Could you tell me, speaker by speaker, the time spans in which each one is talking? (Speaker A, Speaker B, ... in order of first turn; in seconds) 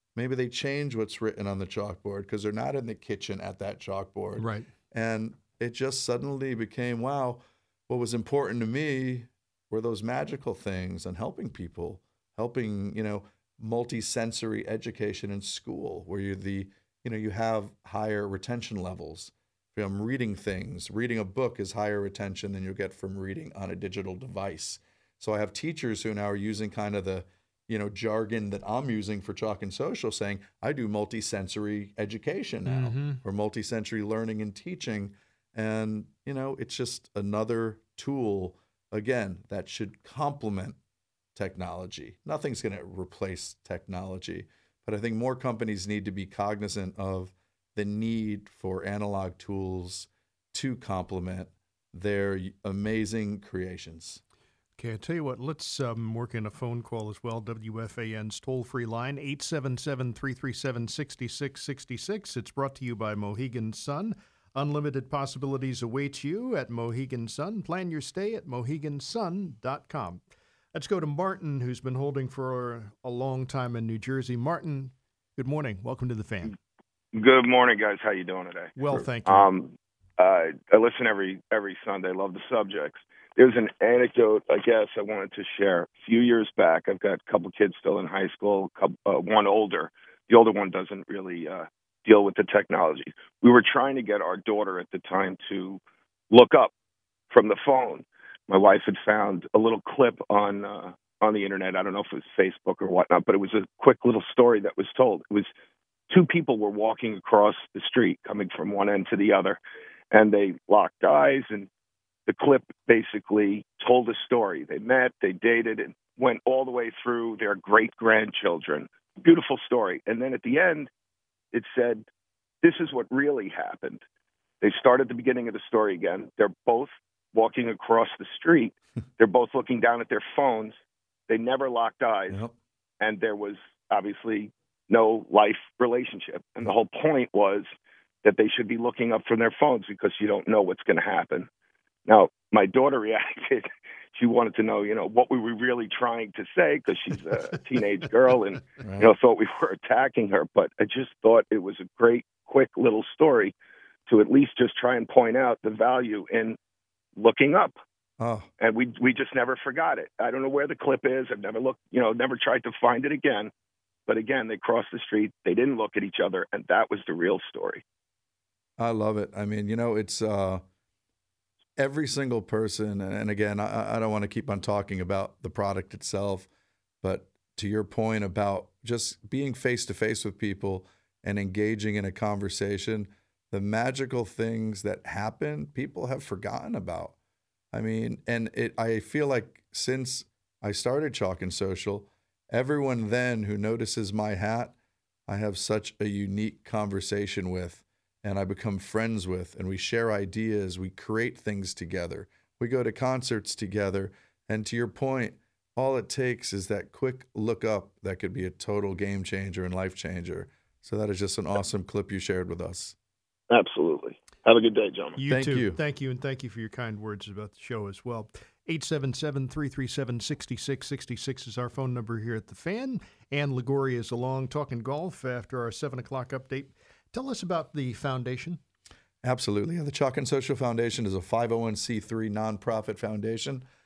Speaker A: 0.1-40.8, 41.4-54.2, 132.3-132.6, 148.8-149.1, 158.2-158.5, 168.8-170.6, 171.8-176.5, 177.0-187.2, 187.7-194.8, 195.3-213.0, 215.3-215.8, 229.2-233.6
Speaker B: 4.4-4.7, 32.6-33.2, 54.8-70.2, 70.7-76.6, 78.8-79.5, 215.2-228.6
Speaker C: 77.1-95.8, 96.3-96.7, 97.3-105.5, 106.1-109.6, 110.1-111.7, 112.3-120.9, 121.5-122.0, 122.6-124.0, 124.6-132.4, 133.0-137.7, 138.2-141.5, 142.1-153.5, 154.1-156.6, 157.2-157.8, 158.6-163.5, 164.1-167.8, 213.5-215.2